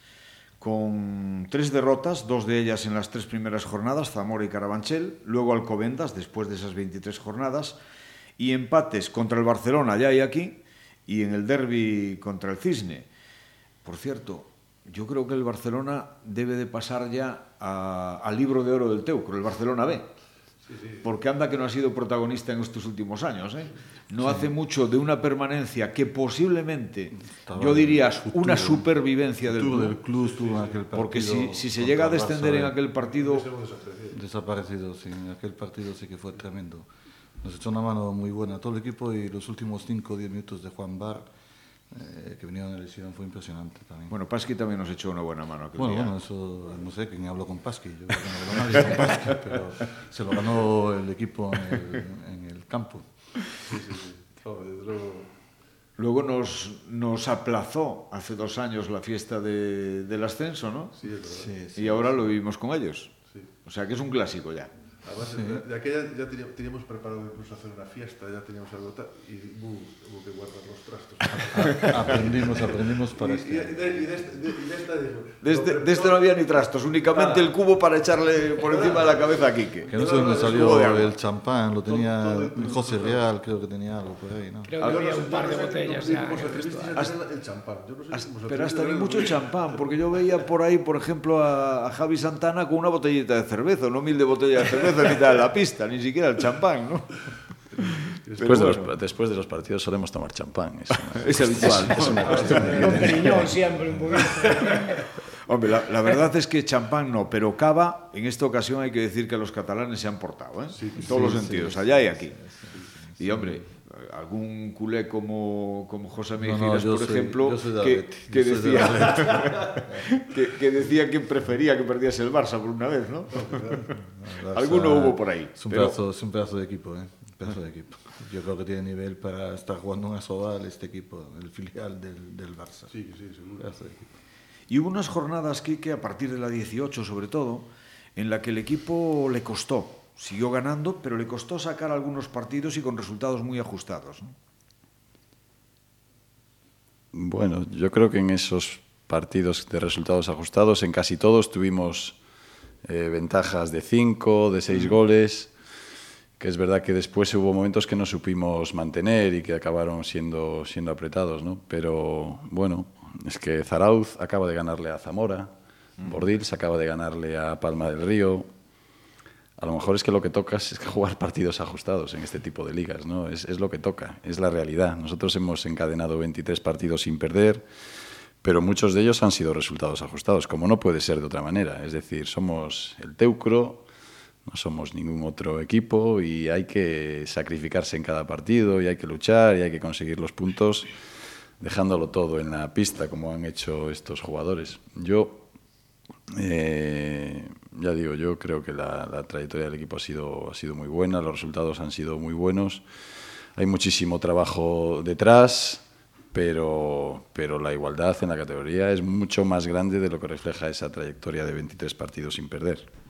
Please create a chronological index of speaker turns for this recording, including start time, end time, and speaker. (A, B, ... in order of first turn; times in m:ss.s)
0:00.6-0:07.8 A
0:08.4-0:13.1 A
0:13.8-0:20.0 A
0:20.6-0:21.0 B
0:21.0-0:30.0 A
0:24.2-0:24.5 C
0:27.2-0:28.8 C
0:29.4-0:32.8 C
0:30.1-0:30.8 B
0:30.9-0:33.5 A
0:33.0-0:34.2 B
0:34.1-0:36.9 C
0:37.4-0:41.3 C
0:41.9-0:44.1 C
0:44.1-0:46.1 A
0:45.8-0:53.1 C
0:53.6-0:55.3 B
0:56.0-1:01.0 A
1:01.0-1:01.5 B
1:01.2-1:02.2 C
1:01.8-1:04.7 A
1:05.0-1:16.3 B
1:05.3-1:05.6 C
1:11.5-1:14.0 C
1:15.4-1:21.1 A
1:17.1-1:17.5 B
1:18.6-1:21.1 B
1:19.9-1:24.7 C
1:21.8-1:23.2 B
1:24.6-1:27.0 D
1:24.8-1:29.8 B
1:28.1-1:37.2 A
1:37.7-1:38.9 B
1:38.4-1:38.8 A
1:38.4-1:43.0 E
1:41.0-1:43.1 A
1:41.8-1:43.4 C
1:42.2-1:43.4 B
1:42.6-1:45.0 D
1:45.4-1:52.4 A
1:50.7-1:51.1 B
1:51.0-1:53.6 C
1:53.2-2:03.8 A
1:56.4-2:00.2 C
2:03.3-2:03.9 B
2:03.9-2:12.9 C
2:04.5-2:06.0 A
2:12.9-2:13.7 B
2:13.6-2:14.1 C
2:14.7-2:24.3 A
2:27.1-2:32.2 E
2:32.9-2:35.5 E
2:34.7-2:35.0 A
2:36.4-2:45.5 E
2:46.0-2:46.2 A
2:46.0-2:48.5 E
2:49.6-2:57.6 E
2:58.4-3:03.8 E
3:04.4-3:10.9 E
3:11.6-3:15.4 E
3:16.3-3:22.8 E
3:23.6-3:25.8 E
3:26.3-3:32.9 E